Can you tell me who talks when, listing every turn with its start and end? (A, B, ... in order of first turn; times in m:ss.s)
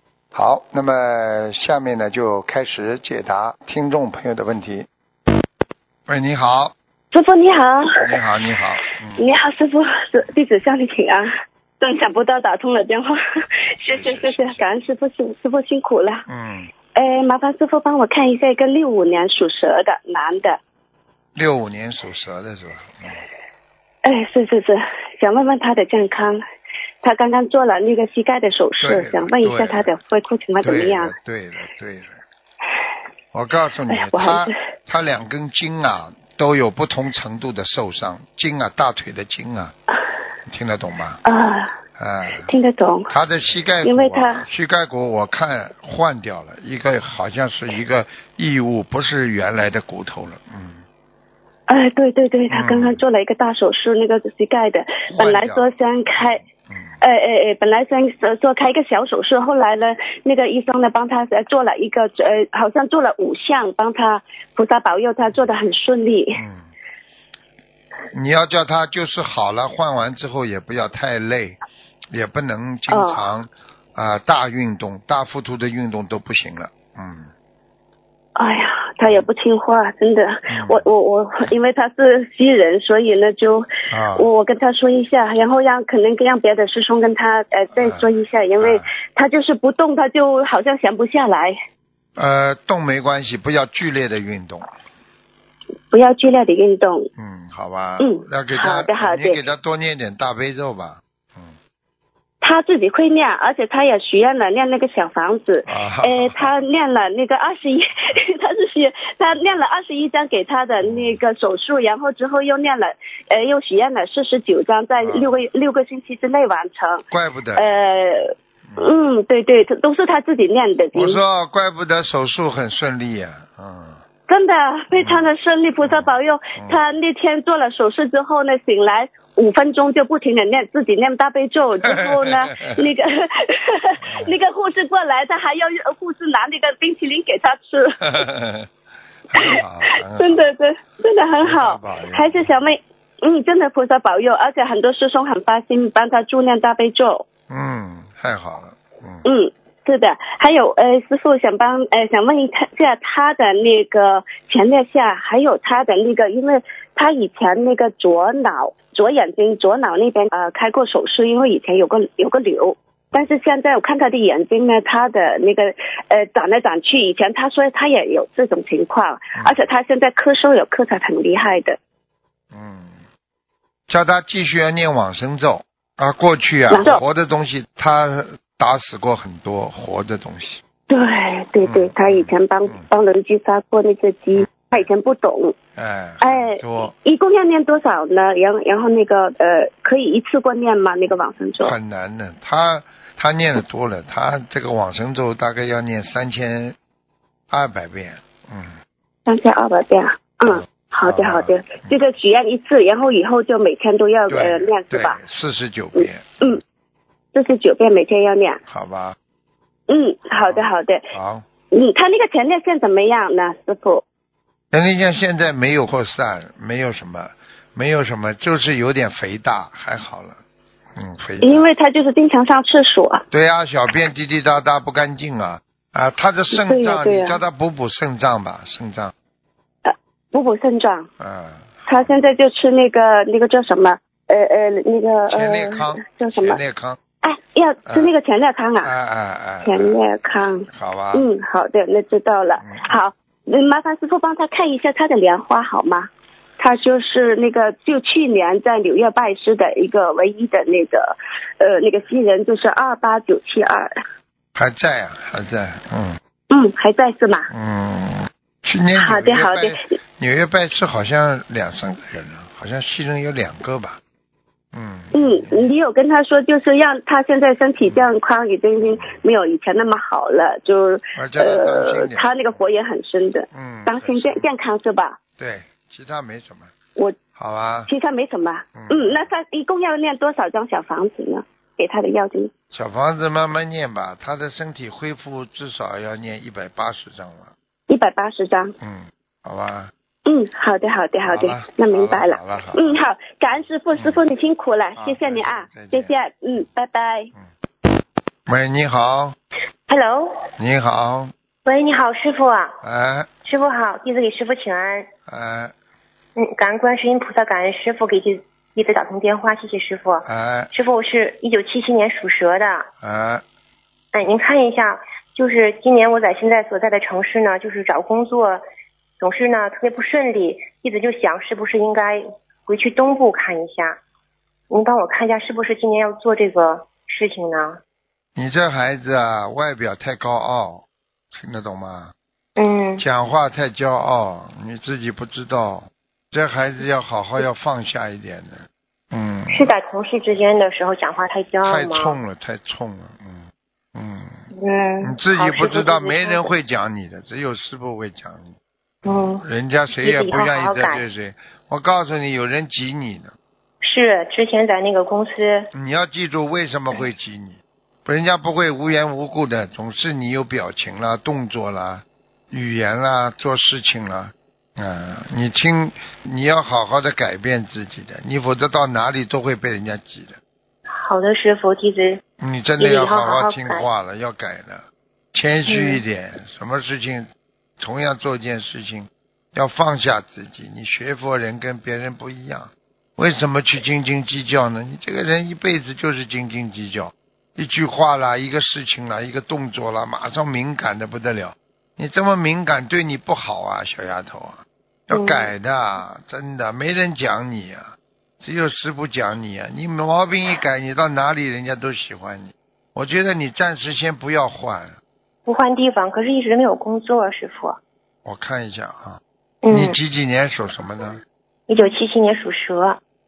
0:00.3-0:04.9 A
0:06.1-0:06.7 A
0:07.1-0:08.2 B
0:08.0-0:09.2 A
0:09.2-0:11.3 B
0:11.8-0:16.2 B
0:13.8-0:14.6 A
0:16.3-0:16.7 A
0:16.9-0:20.6 B
0:21.4-0:23.2 A
0:24.0-0:26.4 B
0:27.0-0:31.1 B
0:28.8-0:29.9 A
0:30.6-0:32.2 A
0:33.3-0:39.7 A
0:33.9-0:34.6 B
0:40.5-0:41.2 A
0:41.2-0:41.7 B
0:42.0-0:42.5 A
0:42.4-0:43.1 B
0:43.1-0:50.8 A
0:43.8-0:44.4 B
0:51.7-0:56.4 B
0:52.5-0:53.0 A
0:55.1-0:56.9 A
0:57.0-1:06.4 B
1:06.3-1:06.7 A
1:08.1-1:11.6 A
1:12.1-1:17.3 A
1:12.9-1:13.2 B
1:18.4-1:31.5 B
1:20.5-1:20.8 A
1:23.9-1:24.3 A
1:27.8-1:28.1 A
1:28.6-1:28.9 A
1:32.2-1:34.7 A
1:35.9-1:37.1 B
1:37.2-1:41.6 A
1:38.0-1:39.4 B
1:42.4-1:57.0 B
1:45.6-1:46.4 A
1:50.8-1:51.2 A
1:55.0-1:55.4 A
1:57.1-1:57.7 A
1:57.6-2:01.2 B
2:00.9-2:04.0 A
2:04.3-2:18.2 B
2:04.9-2:05.2 A
2:05.8-2:06.8 A
2:11.8-2:12.9 A
2:14.0-2:14.3 A
2:18.0-2:18.7 A
2:19.3-2:20.5 A
2:19.4-2:19.6 B
2:20.1-2:27.2 B
2:21.4-2:22.7 A
2:27.5-2:29.2 A
2:29.2-2:51.8 B
2:49.3-2:49.7 A
2:52.5-2:53.0 A
2:53.9-3:00.6 A
2:56.7-2:57.0 B
3:00.9-3:05.6 B
3:01.6-3:02.8 A
3:04.3-3:04.9 A
3:05.8-3:06.9 A
3:06.2-3:11.7 B
3:11.6-3:16.8 A
3:17.5-3:18.8 A
3:19.2-3:25.2 B
3:20.4-3:22.0 A
3:24.3-3:26.6 A
3:26.0-3:26.6 B
3:27.3-3:28.6 B
3:28.7-3:29.2 A
3:29.9-3:31.1 B
3:30.3-3:31.4 A
3:31.7-3:34.0 B
3:34.7-3:40.4 A
3:40.9-3:41.7 A
3:41.4-3:43.2 B
3:43.3-3:49.1 A
3:46.5-3:47.4 B
3:49.8-3:51.1 B
3:51.2-3:52.3 A
3:51.9-3:56.6 B
3:55.3-3:57.0 A
3:57.2-3:58.9 B
3:57.9-3:58.1 A
3:58.8-3:59.9 A
3:59.6-4:13.9 B
4:00.7-4:01.3 A
4:02.6-4:03.0 A
4:14.5-4:16.2 A
4:16.5-4:17.5 B
4:17.5-4:24.0 A
4:19.0-4:19.9 B
4:24.7-4:25.7 A
4:25.1-4:35.2 B
4:27.8-4:28.1 A
4:28.8-4:29.1 A
4:31.2-4:32.6 A
4:33.5-4:34.5 A
4:35.4-4:36.7 A
4:37.4-4:37.9 A
4:37.9-4:42.5 B
4:38.7-4:39.3 A
4:42.7-4:47.5 A
4:47.9-4:48.7 B
4:48.8-4:49.9 A
4:50.2-4:57.3 B
4:51.2-4:53.0 A
4:53.9-4:54.2 A
4:55.0-4:56.1 A
4:58.5-4:59.3 A
4:59.9-5:00.4 C
5:00.6-5:01.3 A
5:01.6-5:02.8 C
5:02.8-5:03.3 A
5:03.4-5:05.1 C
5:05.3-5:05.7 A
5:06.4-5:12.9 C
5:10.2-5:10.7 A
5:13.0-5:13.4 A
5:14.1-5:18.6 C
5:19.2-5:24.0 C
5:24.7-5:27.8 C
5:28.4-5:32.1 A
5:32.6-5:33.0 C
5:33.0-5:39.7 A
5:39.5-5:42.2 C
5:41.6-5:44.4 A
5:44.5-5:46.5 C
5:45.0-5:53.3 A
5:49.0-5:49.4 C
5:50.0-5:51.0 C
5:53.8-5:55.7 C
5:55.7-6:10.4 A
6:10.9-6:12.2 C
6:12.4-6:17.3 A
6:12.8-6:13.9 C
6:15.7-6:16.0 C
6:17.8-6:45.0 A
6:35.1-6:35.5 C
6:45.4-6:47.8 C
6:48.2-6:51.2 A
6:49.6-6:50.0 C
6:51.7-6:53.0 C